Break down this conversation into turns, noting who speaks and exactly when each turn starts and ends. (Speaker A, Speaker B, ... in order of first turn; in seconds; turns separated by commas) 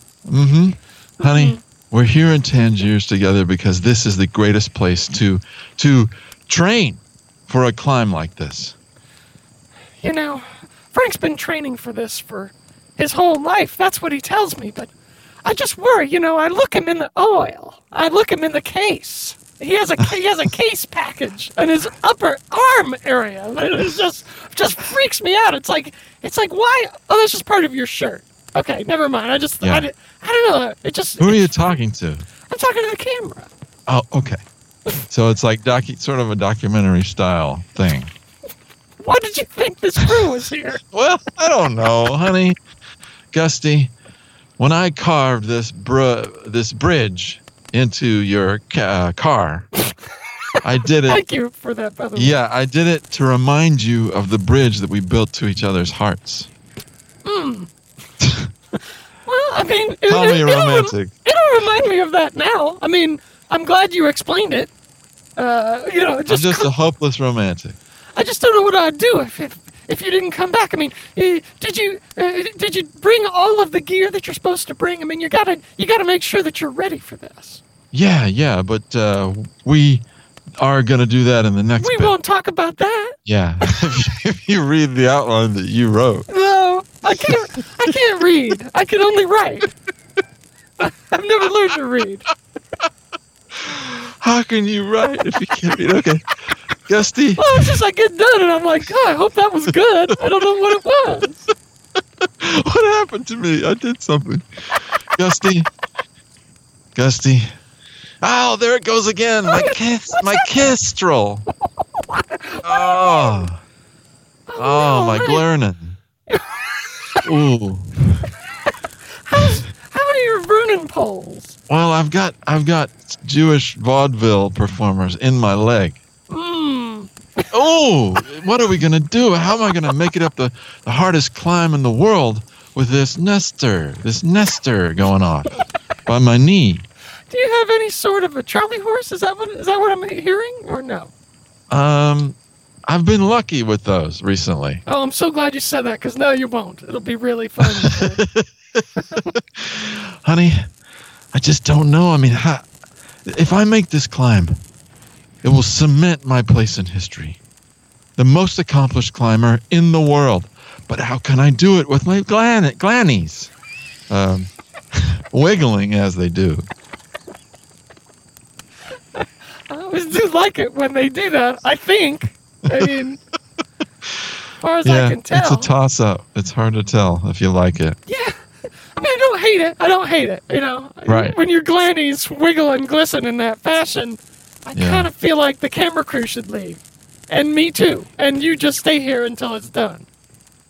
Speaker A: 0.3-8.8, Speaker B: 1.2-1.6, Speaker B: 10.0-14.9, Speaker B: 15.4-31.6, Speaker A: 29.6-29.9, Speaker A: 31.2-32.3, Speaker B: 32.5-33.5, Speaker A: 33.9-34.4, Speaker A: 35.1-38.1, Speaker B: 39.0-40.8, Speaker A: 40.9-42.6, Speaker A: 43.3-43.9, Speaker A: 44.6-49.7, Speaker A: 50.6-51.2, Speaker B: 51.1-52.4, Speaker A: 52.2-56.5, Speaker B: 57.2-57.7, Speaker A: 58.2-58.5, Speaker B: 59.3-64.7, Speaker A: 60.1-61.1, Speaker B: 65.4-66.7, Speaker A: 66.3-67.8, Speaker B: 68.2-77.6, Speaker A: 77.9-80.0, Speaker A: 80.6-82.2, Speaker B: 81.8-83.2, Speaker A: 83.3-86.3, Speaker B: 86.3-89.7, Speaker B: 90.8-92.3, Speaker A: 93.5-96.2, Speaker A: 96.9-97.7, Speaker B: 97.4-101.5, Speaker A: 102.2-105.7, Speaker A: 107.0-107.5, Speaker A: 108.2-111.5, Speaker B: 109.5-110.7, Speaker B: 112.0-113.5, Speaker A: 112.6-113.6, Speaker B: 114.5-115.5, Speaker A: 114.6-116.0, Speaker B: 116.3-117.2, Speaker A: 117.2-118.2, Speaker B: 119.3-121.6, Speaker A: 121.7-126.0, Speaker B: 126.3-127.5, Speaker A: 127.5-136.9, Speaker B: 137.3-141.1, Speaker A: 141.7-144.8, Speaker B: 144.9-148.2, Speaker A: 147.6-150.7, Speaker A: 151.3-152.7, Speaker A: 153.3-154.6, Speaker A: 155.4-157.4, Speaker A: 158.2-163.5, Speaker A: 164.1-166.7, Speaker B: 169.2-173.2, Speaker B: 174.6-175.7, Speaker A: 174.8-178.0, Speaker B: 178.1-178.4, Speaker B: 178.9-190.1, Speaker A: 181.1-181.4, Speaker A: 184.7-185.1